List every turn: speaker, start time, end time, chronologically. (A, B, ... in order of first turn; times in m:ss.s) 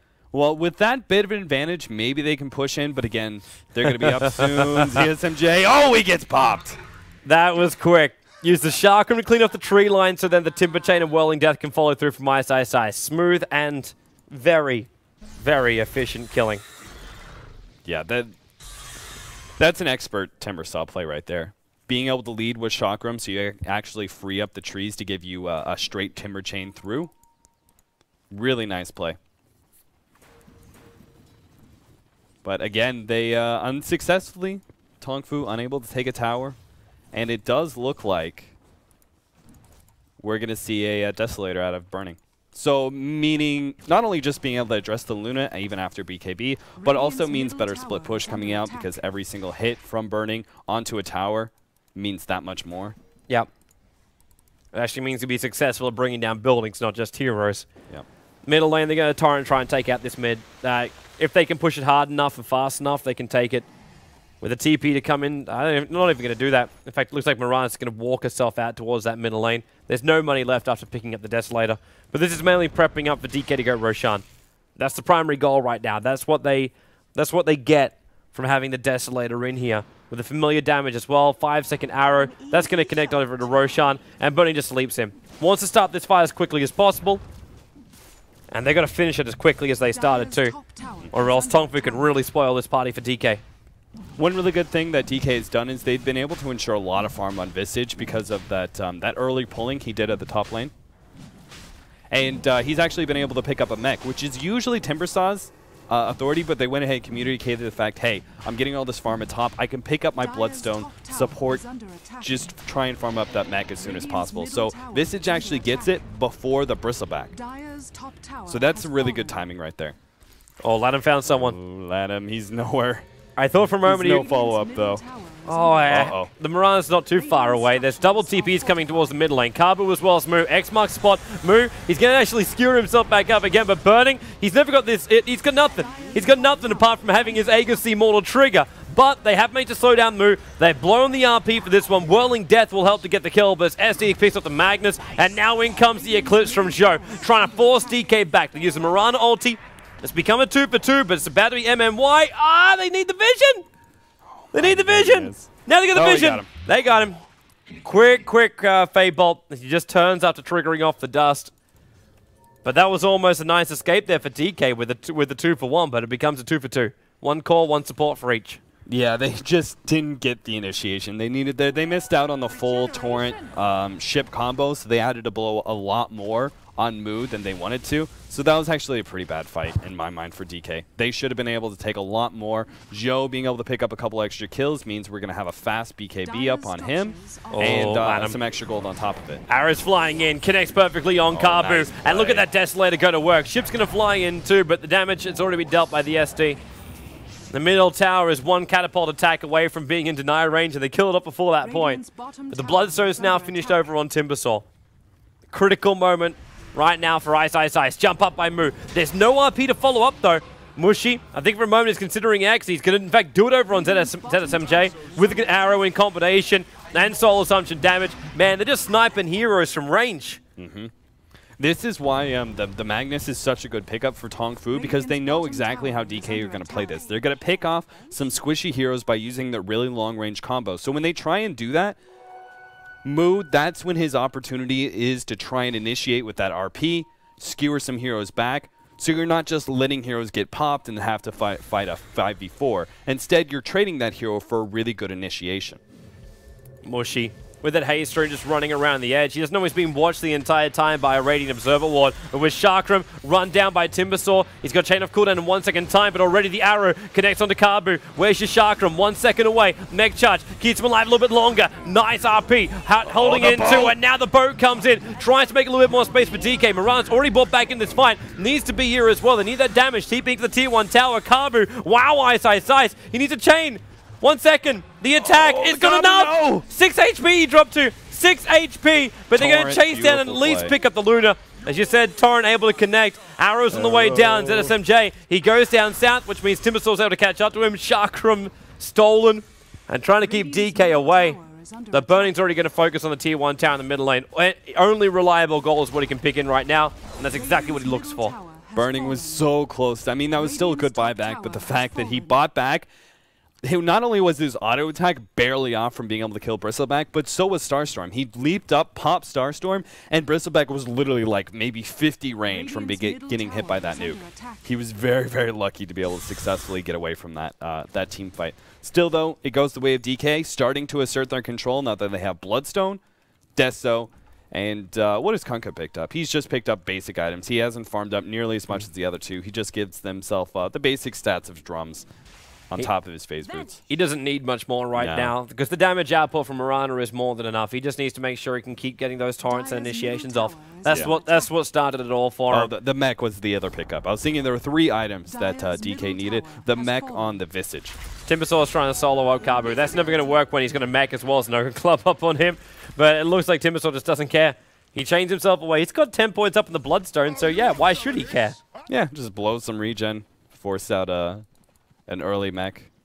0:00.3-0:06.8 A
0:03.8-0:05.0 B
0:07.2-0:16.6 B
0:17.8-0:18.3 A
0:19.6-0:27.1 A
0:28.3-0:29.2 A
0:32.4-0:36.6 A
0:37.1-0:38.6 A
0:40.2-0:53.0 A
0:46.8-0:48.9 C
0:54.7-0:57.7 B
0:58.5-1:03.7 B
1:04.4-1:14.2 B
1:14.8-1:27.2 B
1:22.0-1:23.8 C
1:28.5-1:30.6 B
1:29.8-1:32.2 C
1:31.1-1:33.4 B
1:34.2-1:40.7 A
1:42.1-1:51.6 A
1:50.2-1:52.6 C
1:52.2-1:57.3 A
1:53.8-1:56.0 C
1:57.3-1:59.5 C
1:58.5-2:00.0 A
2:00.6-2:01.6 B
2:01.3-2:03.0 A
2:03.4-2:04.2 B
2:03.8-2:05.0 A
2:04.0-2:06.1 C
2:05.5-2:33.6 B
2:05.9-2:06.3 A
2:07.1-2:09.3 C
2:15.6-2:17.9 C
2:25.5-2:29.0 C
2:34.3-2:36.5 A
2:34.5-2:37.2 B
2:37.8-2:41.5 B
2:42.6-2:48.6 B
2:48.9-3:09.4 A
2:52.5-2:53.6 C
3:06.2-3:08.0 C
3:07.5-3:08.4 B
3:09.5-3:16.6 B
3:11.3-3:12.5 A
3:17.5-3:24.7 B
3:21.6-3:23.9 C
3:25.5-3:40.4 B
3:33.7-3:35.8 C
3:40.6-3:40.9 A
3:41.6-3:52.0 A
3:44.7-3:48.2 C
3:53.0-4:05.8 A
4:06.8-4:51.4 B
4:23.1-4:24.0 A
4:35.2-4:36.6 A
4:39.3-4:40.7 A
4:43.7-4:44.7 A
4:50.2-4:52.5 C
4:51.9-4:58.4 B
4:57.3-4:59.5 C
4:58.8-5:02.9 A
5:00.4-5:02.4 C
5:03.6-5:23.0 A
5:12.5-5:14.7 C
5:23.6-5:32.1 A
5:32.7-5:33.8 A
5:33.9-5:42.7 B
5:35.0-5:35.3 A
5:39.4-5:41.6 C
5:42.5-5:48.0 A
5:45.3-5:47.4 C
5:48.3-5:58.6 B
5:58.9-6:01.4 A
6:02.1-6:02.9 A